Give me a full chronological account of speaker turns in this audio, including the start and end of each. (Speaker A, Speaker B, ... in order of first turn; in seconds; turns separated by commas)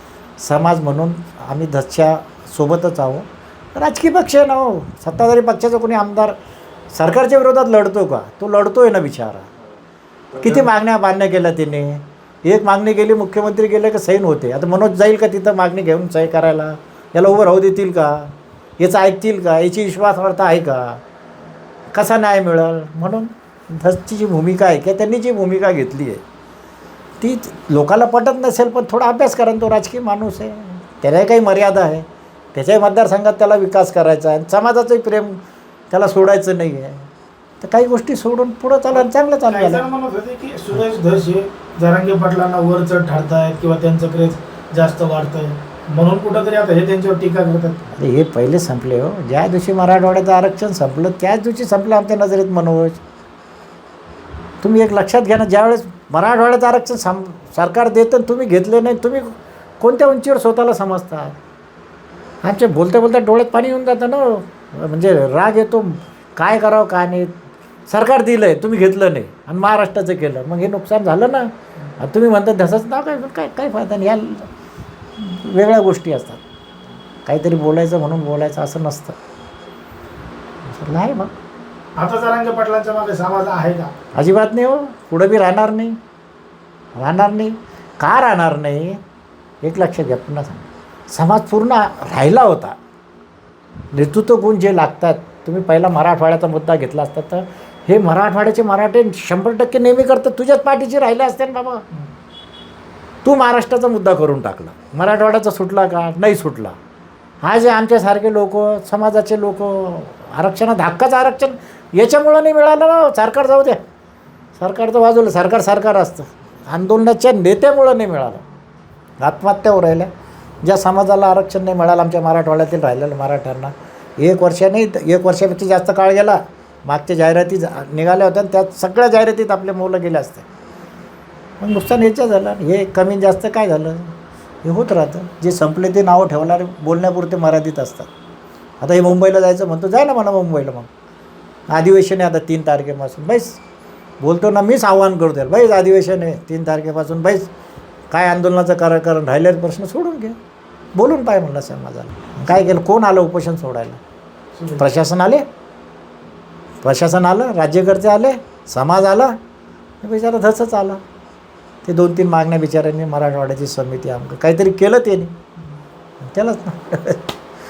Speaker A: 0.4-6.3, Speaker A: 6.9-9.5, Speaker A: 10.3-21.0, Speaker A: 21.9-26.2, Speaker A: 27.2-35.4, Speaker A: 35.9-37.1, Speaker A: 37.6-39.8, Speaker B: 39.5-47.8, Speaker A: 47.9-53.0, Speaker A: 54.6-61.4, Speaker A: 62.4-67.3, Speaker A: 67.9-74.5, Speaker A: 75.2-76.4, Speaker A: 77.2-79.2, Speaker A: 80.7-81.3, Speaker B: 82.0-83.9, Speaker A: 84.1-86.0, Speaker A: 87.0-89.0, Speaker A: 89.6-92.8, Speaker A: 93.9-101.8, Speaker A: 103.2-106.8, Speaker A: 107.4-113.8, Speaker A: 114.5-118.4, Speaker A: 119.2-120.1, Speaker A: 120.6-130.4, Speaker A: 131.6-138.1, Speaker A: 138.8-140.9, Speaker A: 141.7-143.6, Speaker A: 144.2-147.5, Speaker A: 148.1-150.4, Speaker A: 150.9-154.0, Speaker B: 154.6-154.8, Speaker A: 154.8-155.4, Speaker A: 156.8-159.3, Speaker A: 160.0-161.0, Speaker A: 161.8-165.3, Speaker A: 166.2-167.3